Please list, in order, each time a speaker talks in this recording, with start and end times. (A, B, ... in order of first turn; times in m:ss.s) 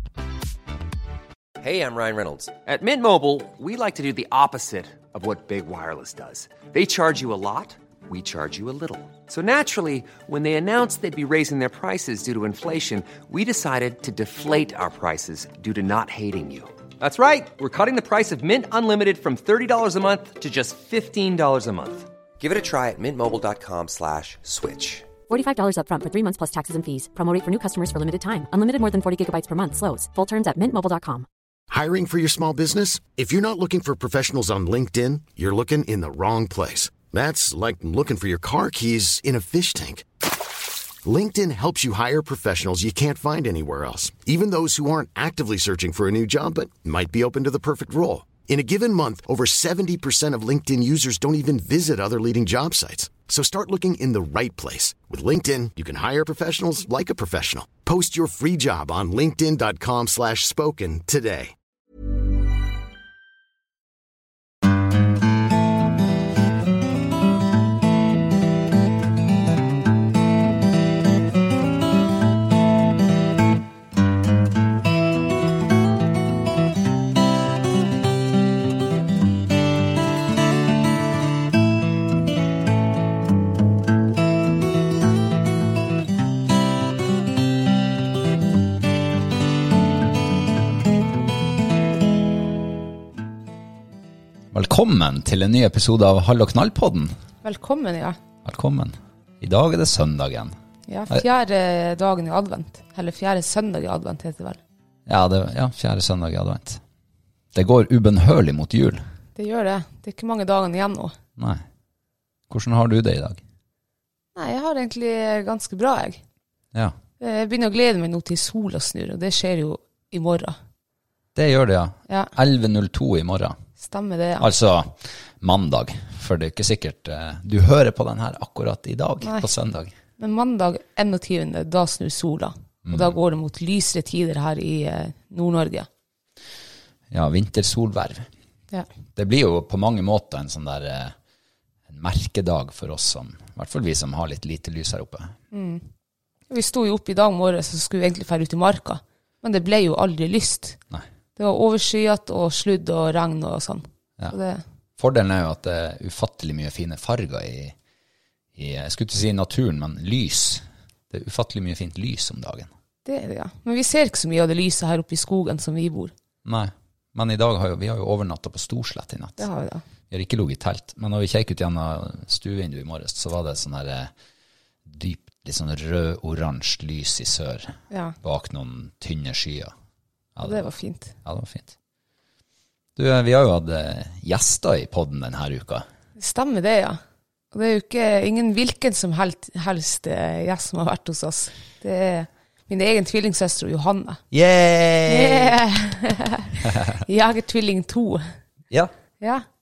0:01.6-0:25.1 A
0:25.3-0:31.2 B
0:31.7-0:40.0 C
0:41.0-1:01.5 C
1:34.5-1:37.1 D
1:37.4-1:38.2 E
1:38.4-1:40.5 D
1:40.9-1:44.6 E
1:45.0-1:46.8 D
1:47.5-1:49.0 D
1:49.4-1:51.1 E
1:51.4-1:51.6 D
1:52.5-1:53.4 D
1:54.3-1:56.2 E
1:57.2-2:00.6 E
2:01.3-2:03.6 D
2:03.8-2:04.5 E
2:04.4-2:09.9 D
2:09.2-2:09.5 E
2:10.2-2:15.9 E
2:12.8-2:13.1 D
2:17.1-2:18.3 D
2:19.2-2:21.1 D
2:21.9-2:25.3 D
2:25.5-2:25.8 E
2:26.5-2:30.8 E
2:31.4-2:34.6 E
2:35.0-2:37.7 D
2:38.5-2:42.7 D
2:43.0-2:46.1 E
2:46.4-2:49.5 D
2:49.4-2:49.8 E
2:50.1-2:54.1 D
2:54.8-2:59.7 D
2:57.9-2:58.2 E
3:00.3-3:00.7 D
3:00.4-3:01.1 E
3:01.2-3:01.7 D
3:03.0-3:05.8 D
3:06.2-3:07.0 E
3:07.5-3:14.2 E
3:14.3-3:15.6 D
3:15.1-3:18.2 E